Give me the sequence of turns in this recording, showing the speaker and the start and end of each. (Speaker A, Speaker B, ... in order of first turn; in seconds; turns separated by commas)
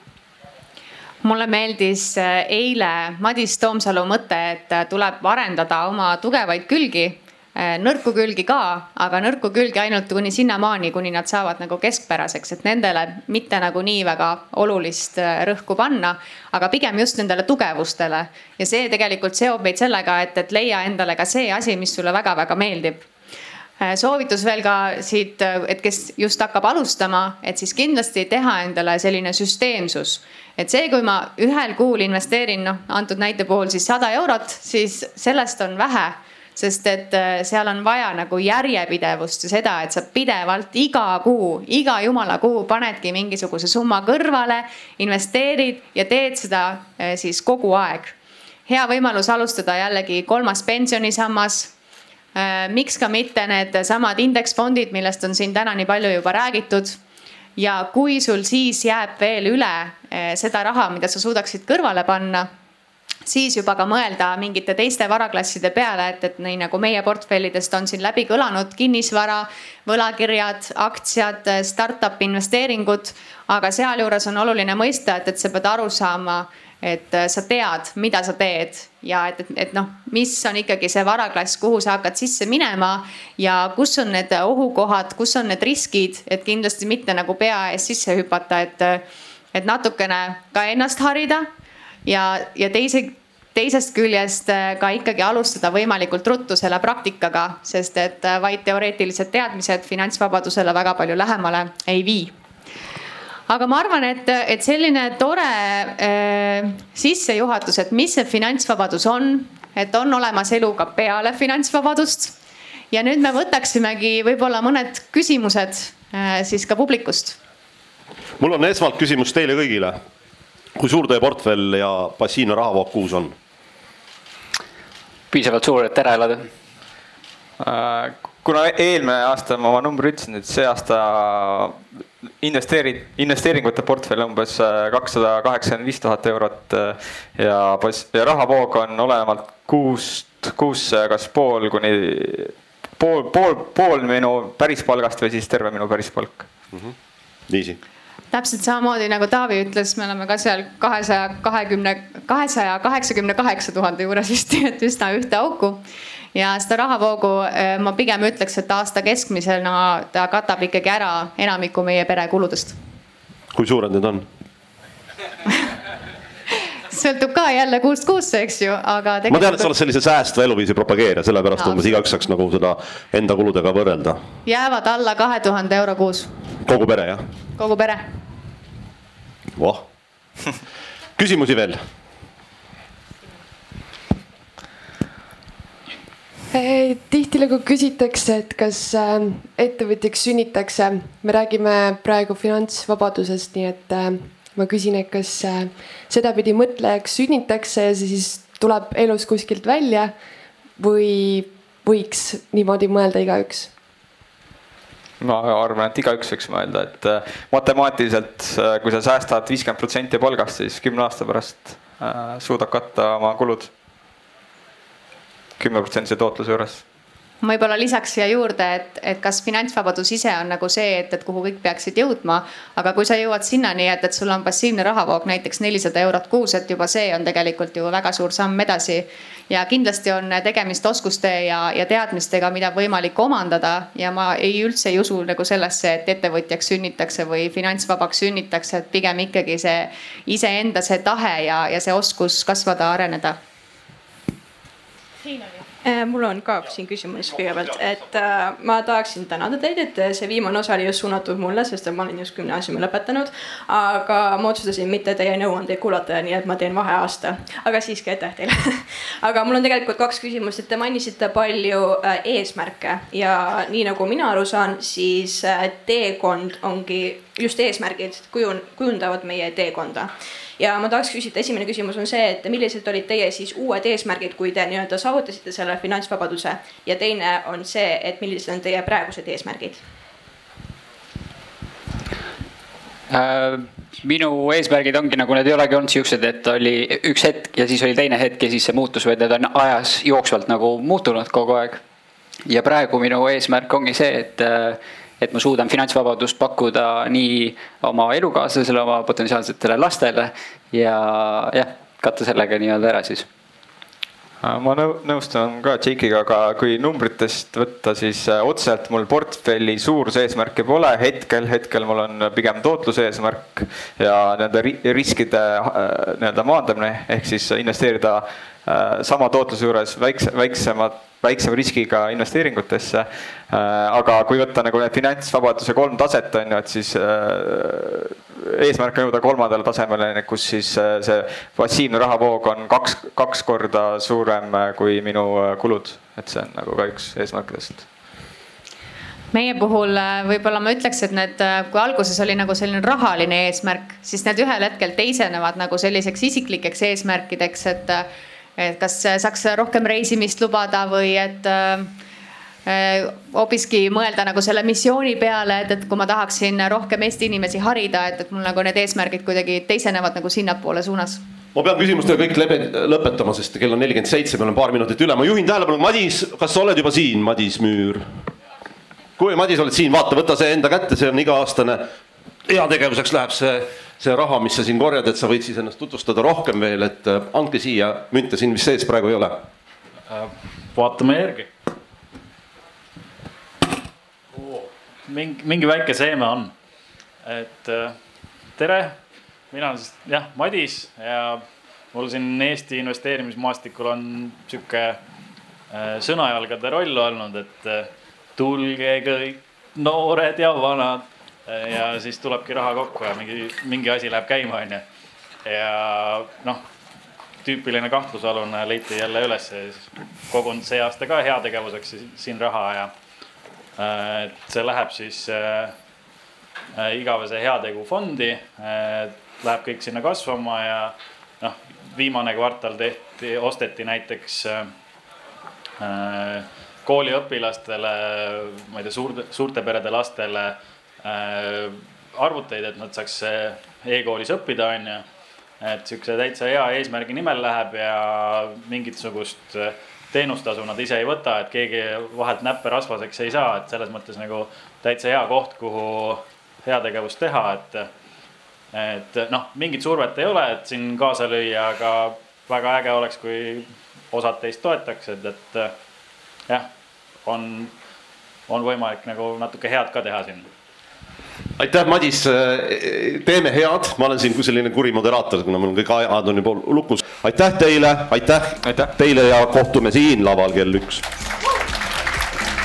Speaker A: 1.2-23.1, Speaker A: 23.8-48.1, Speaker A: 48.7-51.7, Speaker A: 52.3-57.0, Speaker A: 57.6-62.5, Speaker A: 63.2-91.5, Speaker A: 92.0-102.3, Speaker A: 103.5-112.3, Speaker A: 112.9-117.4, Speaker B: 118.4-120.0, Speaker B: 120.8-123.3, Speaker C: 125.3-126.5, Speaker D: 127.6-131.8, Speaker D: 132.4-146.5, Speaker B: 147.5-147.8, Speaker A: 148.3-155.8, Speaker A: 156.3-162.8, Speaker B: 163.5-164.2, Speaker A: 166.9-169.7, Speaker B: 169.3-174.2, Speaker A: 171.6-171.9, Speaker A: 174.4-176.3, Speaker B: 176.6-177.2, Speaker A: 177.6-178.0, Speaker B: 179.6-179.8, Speaker B: 181.2-181.8, Speaker E: 186.5-200.2, Speaker E: 200.7-203.7, Speaker D: 205.2-213.7, Speaker D: 215.6-216.8, Speaker A: 217.4-243.4, Speaker F: 245.8-279.8, Speaker C: 283.1-291.8, Speaker C: 292.4-303.2, Speaker D: 304.4-337.9, Speaker A: 339.3-351.9, Speaker A: 352.6-361.2, Speaker B: 361.5-368.1, Speaker B: 369.2-371.9, Speaker B: 372.5-379.4, Speaker G: 380.1-381.5, Speaker G: 384.3-386.5, Speaker G: 387.2-387.9, Speaker G: 388.6-389.0, Speaker G: 389.5-395.0, Speaker G: 395.7-404.8, Speaker G: 405.4-406.6, Speaker G: 407.4-412.9, Speaker G: 413.8-415.8, Speaker G: 416.7-424.7, Speaker G: 425.8-435.0, Speaker G: 435.6-447.9, Speaker G: 448.7-455.7, Speaker G: 457.2-457.7, Speaker G: 458.5-460.5, Speaker B: 461.6-471.0, Speaker D: 468.6-468.9